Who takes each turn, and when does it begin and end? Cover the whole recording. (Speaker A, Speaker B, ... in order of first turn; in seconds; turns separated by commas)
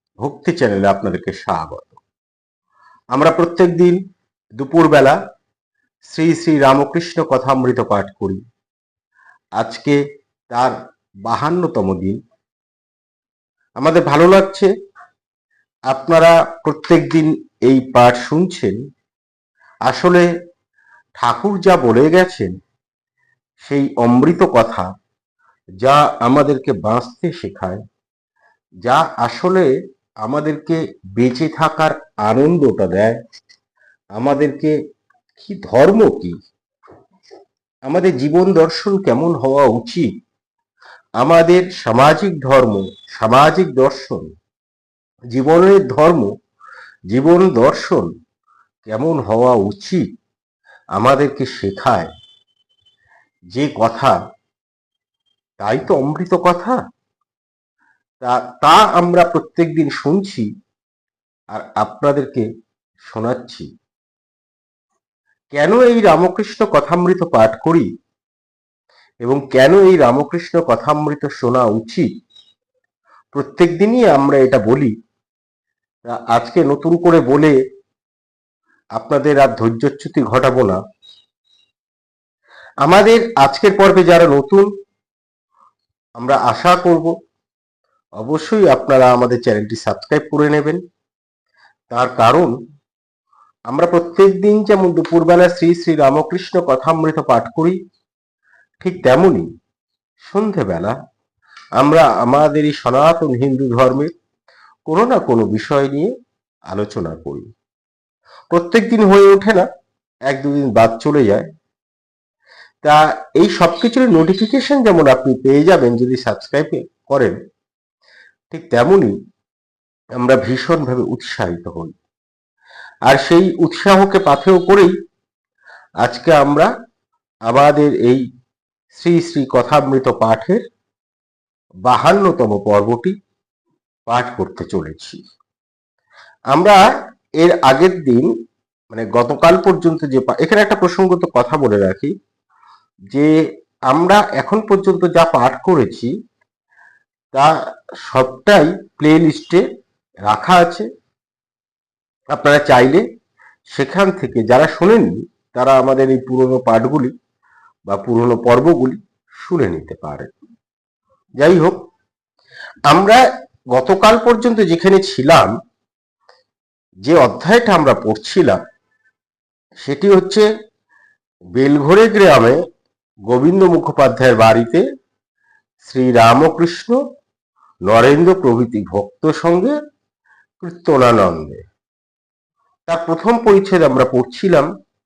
Speaker A: 0.2-2.0, Speaker A: 3.1-4.0, Speaker A: 4.6-5.2, Speaker A: 6.1-8.4, Speaker A: 9.6-10.0, Speaker A: 11.3-12.2, Speaker A: 13.8-14.7, Speaker A: 15.9-18.8, Speaker A: 19.9-20.2, Speaker A: 21.2-22.5, Speaker A: 23.6-24.9, Speaker A: 25.8-27.8, Speaker A: 28.8-29.7, Speaker A: 30.2-33.2, Speaker A: 34.2-34.7, Speaker A: 35.4-36.4, Speaker A: 37.9-40.1, Speaker A: 41.2-44.2, Speaker A: 45.3-46.3, Speaker A: 47.1-48.1, Speaker A: 48.9-50.0, Speaker A: 51.0-52.1, Speaker A: 53.5-54.2, Speaker A: 55.6-56.8, Speaker A: 58.2-60.5, Speaker A: 61.5-62.5, Speaker A: 63.0-63.7, Speaker A: 65.5-67.9, Speaker A: 69.2-72.1, Speaker A: 73.3-74.9, Speaker A: 76.1-77.5, Speaker A: 79.0-80.8, Speaker A: 82.8-84.7, Speaker A: 86.2-87.1, Speaker A: 88.2-90.8, Speaker A: 91.9-92.5, Speaker A: 93.7-97.8, Speaker A: 98.8-99.5, Speaker A: 100.2-100.9, Speaker A: 101.8-104.1, Speaker A: 104.9-106.1, Speaker A: 106.7-107.5, Speaker A: 108.5-109.7, Speaker A: 110.3-111.5, Speaker A: 112.8-117.3, Speaker A: 118.5-119.1, Speaker A: 120.2-122.0, Speaker A: 123.1-124.9, Speaker A: 126.0-126.7, Speaker A: 127.5-128.2, Speaker A: 128.9-130.6, Speaker A: 131.8-133.1, Speaker A: 134.1-135.2, Speaker A: 136.5-136.8, Speaker A: 137.4-138.3, Speaker A: 138.9-142.1, Speaker A: 143.9-146.1, Speaker A: 148.0-149.6, Speaker A: 150.3-150.9, Speaker A: 152.3-153.0, Speaker A: 153.7-157.1, Speaker A: 157.9-160.3, Speaker A: 161.4-161.8, Speaker A: 162.9-163.2, Speaker A: 163.7-165.5, Speaker A: 167.1-168.6, Speaker A: 169.8-170.4, Speaker A: 171.6-172.6, Speaker A: 173.3-174.8, Speaker A: 175.8-177.0, Speaker A: 177.9-179.7, Speaker A: 180.6-181.6, Speaker A: 182.9-184.7